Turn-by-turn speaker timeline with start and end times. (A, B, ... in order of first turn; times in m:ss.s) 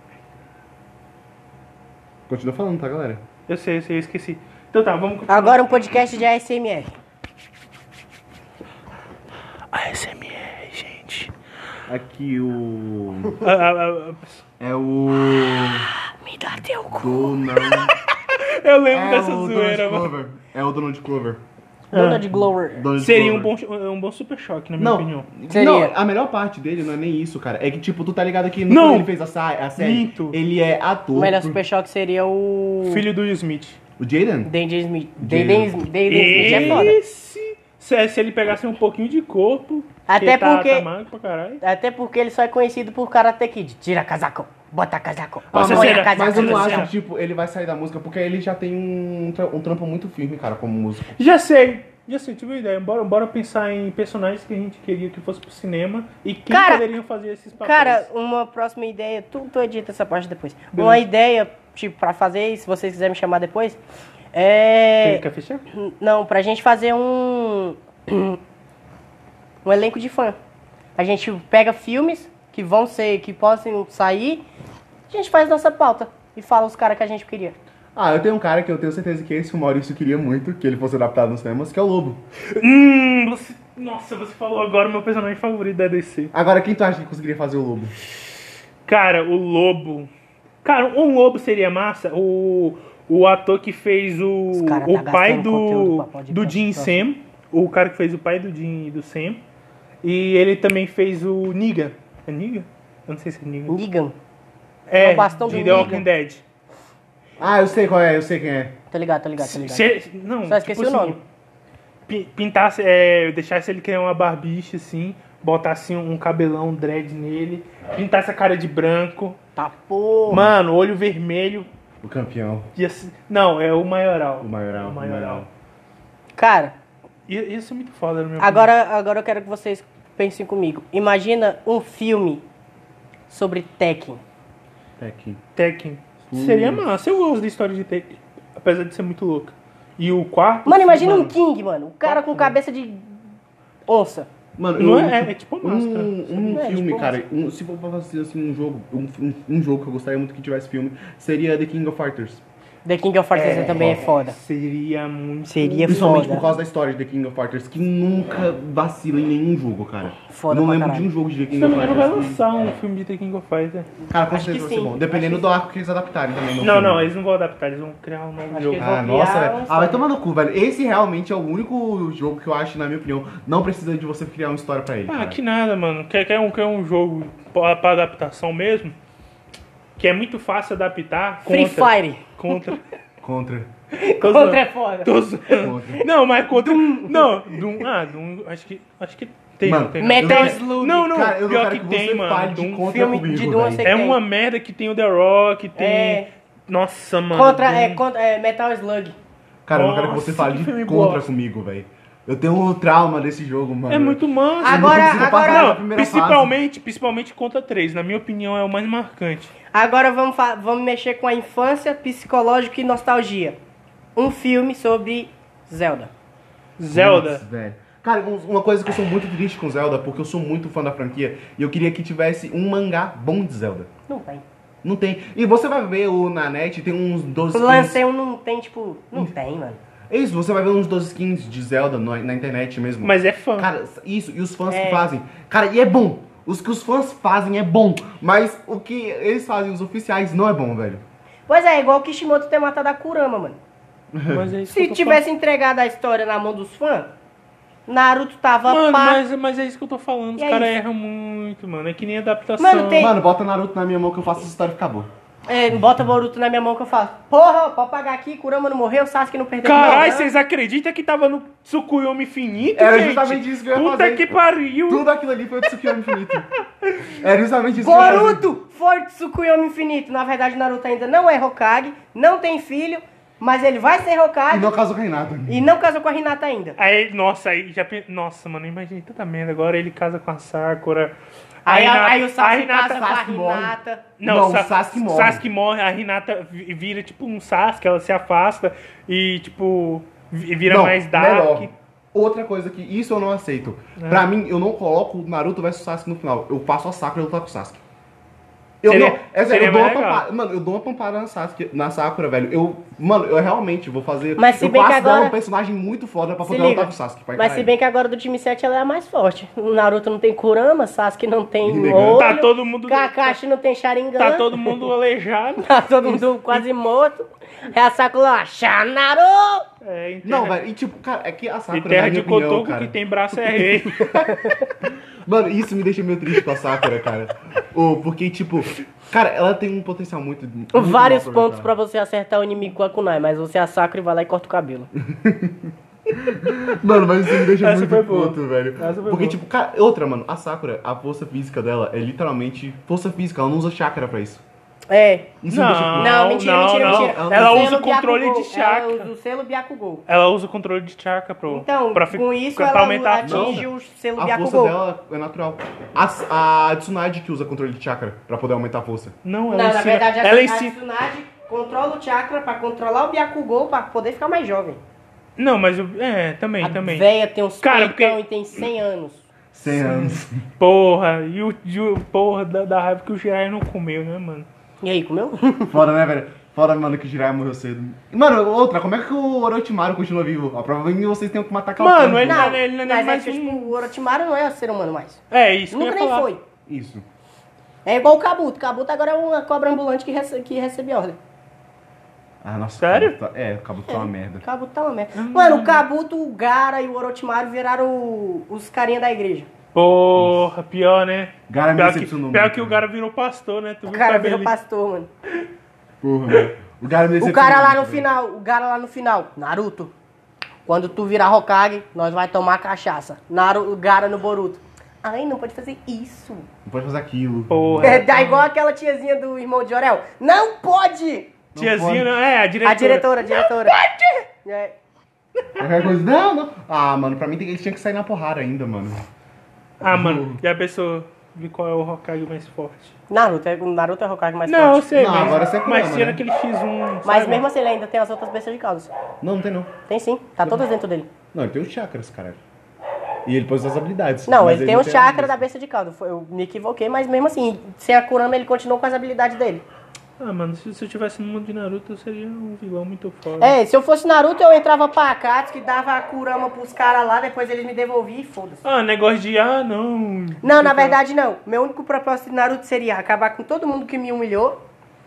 0:02.3-0:03.2 A
0:03.5-0:06.0 B
0:05.3-0:06.9 C
0:09.7-0:11.3 B
0:11.9-0:13.4 A
0:13.4-0:14.2 B
0:14.6-0:15.9 A
0:16.0-0:17.9 C
0:16.9-0:17.9 A
0:18.3-0:20.1 B
0:18.9-0:21.4 A
0:21.9-0:22.9 C
0:21.9-0:22.3 B
0:22.7-0:23.5 A
0:23.0-0:25.3 B
0:24.8-0:31.6 A
0:25.5-0:26.0 C
0:28.7-0:29.1 B
0:29.8-0:30.4 B
0:31.2-0:33.0 C
0:32.8-0:33.8 B
0:34.0-0:34.5 A
0:34.4-0:37.0 C
0:35.2-0:36.9 A
0:36.1-0:41.6 B
0:40.1-0:40.9 C
0:41.6-0:46.9 C
0:45.5-0:51.2 A
0:45.5-0:46.9 B
0:51.2-0:58.1 B
0:56.5-0:56.9 C
0:57.6-1:03.8 C
1:00.7-1:01.0 B
1:04.3-1:08.4 C
1:05.0-1:05.6 B
1:09.6-1:10.4 C
1:11.0-1:14.4 C
1:15.1-1:17.6 C
1:18.0-1:22.2 A
1:22.5-1:26.3 B
1:26.3-1:28.0 A
1:28.9-1:30.1 B
1:30.6-1:39.4 B
1:34.5-1:37.0 C
1:40.0-1:43.8 B
1:43.7-1:44.2 C
1:44.9-1:46.4 B
1:45.0-1:46.0 C
1:45.5-1:46.1 A
1:47.4-1:48.8 A
1:48.9-1:49.9 C
1:49.4-1:51.2 B
1:50.5-1:51.2 C
1:52.1-1:59.4 B
1:59.6-2:00.5 C
2:00.3-2:01.7 B
2:02.0-2:02.7 A
2:02.8-2:05.5 B
2:04.4-2:05.5 A
2:06.4-2:06.8 C
2:07.3-2:08.7 B
2:08.4-2:12.4 C
2:13.3-2:14.2 C
2:15.0-2:15.4 A
2:15.6-2:21.3 B
2:16.3-2:16.9 A
2:20.7-2:23.2 C
2:22.1-2:22.5 A
2:23.9-2:24.3 C
2:24.6-2:32.4 A
2:24.8-2:26.7 B
2:26.6-2:27.2 C
2:32.8-2:34.4 C
2:33.3-2:36.4 B
2:33.7-2:34.0 A
2:35.5-2:36.5 C
2:35.9-2:42.4 A
2:40.3-2:41.1 C
2:41.5-2:43.9 B
2:44.1-2:47.1 A
2:44.3-2:45.5 C
2:46.6-2:48.9 B
2:48.5-2:50.0 C
2:48.7-2:55.4 A
2:55.1-2:59.0 B
3:00.0-3:02.8 B
3:01.4-3:02.6 C
3:03.2-3:03.7 A
3:04.0-3:05.1 C
3:04.2-3:13.0 B
3:05.6-3:06.0 A
3:06.5-3:07.8 C
3:09.6-3:13.9 A
3:10.0-3:11.0 C
3:12.8-3:14.2 C
3:13.8-3:18.0 B
3:15.8-3:16.3 C
3:17.3-3:19.2 C
3:19.7-3:26.5 A
3:19.7-3:21.3 B
3:23.9-3:29.5 B
3:24.6-3:25.8 C
3:29.7-3:33.6 C
3:34.2-3:36.1 C
3:36.8-3:37.4 B
3:36.9-3:43.9 A
3:44.1-3:44.4 C
3:44.8-3:48.0 A
3:47.5-3:49.8 C
3:50.1-4:01.0 A
3:53.0-3:53.7 B
3:54.7-3:55.0 C
4:01.5-4:03.6 C
4:04.1-4:04.5 A
4:04.3-4:05.2 B
4:04.7-4:07.1 C
4:07.9-4:09.2 C
4:08.7-4:13.1 B
4:10.4-4:10.7 C
4:12.6-4:13.1 C
4:13.0-4:15.1 A
4:15.5-4:20.3 C
4:19.6-4:25.1 B
4:19.8-4:20.1 A
4:22.8-4:24.3 A
4:24.9-4:26.5 A
4:25.6-4:26.0 B
4:27.0-4:28.4 A
4:27.8-4:34.7 C
4:27.9-4:28.3 B
4:34.5-4:35.7 A
4:35.5-4:36.8 C
4:36.8-4:43.2 B
4:41.7-4:44.1 C
4:43.0-4:45.4 A
4:44.2-4:51.7 B
4:50.7-4:57.8 A
4:54.0-4:54.3 B
4:58.8-5:07.7 A
4:58.8-5:00.3 B
5:04.4-5:05.4 C
5:06.4-5:14.8 C
5:11.6-5:12.3 A
5:11.9-5:13.4 B
5:14.2-5:16.7 B
5:15.6-5:19.7 C
5:19.8-5:20.6 B
5:20.2-5:22.9 A
5:21.7-5:24.2 B
5:23.9-5:31.7 A
5:24.2-5:24.7 C
5:30.7-5:34.9 C
5:35.0-5:44.4 A
5:37.5-5:39.4 B
5:44.9-5:45.4 C
5:45.4-5:46.2 A
5:45.5-5:49.1 B
5:46.0-5:50.0 C
5:46.8-5:47.8 A
5:50.1-5:53.6 B
5:51.5-5:54.8 C
5:53.2-5:59.2 A
5:59.2-6:00.7 B
5:59.5-6:04.8 C
6:05.4-6:07.1 B
6:06.6-6:09.3 C
6:07.6-6:08.2 B
6:09.5-6:10.5 A
6:09.7-6:14.5 B
6:14.8-6:15.8 C
6:15.7-6:22.6 A
6:21.8-6:23.9 B
6:22.2-6:26.4 C
6:25.3-6:26.3 B
6:26.7-6:27.0 A
6:27.9-6:31.2 C
6:32.4-6:34.4 A
6:32.8-6:33.2 B
6:33.9-6:39.5 C
6:35.2-6:35.8 B
6:39.7-6:44.5 B
6:40.2-6:40.5 A
6:41.5-6:42.8 A
6:43.9-6:45.1 C
6:46.0-6:48.1 A
6:47.2-6:49.9 C
6:50.6-6:56.5 C
6:56.7-6:58.0 A
6:57.5-6:58.5 B
6:57.8-7:01.3 C
7:01.6-7:02.1 A
7:01.6-7:04.0 B
7:02.6-7:04.8 C
7:05.6-7:09.0 A
7:09.8-7:13.0 B
7:09.9-7:10.4 A
7:13.1-7:15.4 C
7:14.5-7:17.4 B
7:15.0-7:16.2 A
7:17.0-7:18.9 C
7:19.2-7:19.7 A
7:19.9-7:21.1 C
7:21.3-7:22.4 A
7:23.2-7:25.4 A
7:24.3-7:29.6 C
7:30.2-7:33.6 B
7:33.4-7:38.6 C
7:38.6-7:41.0 B
7:40.4-7:44.6 C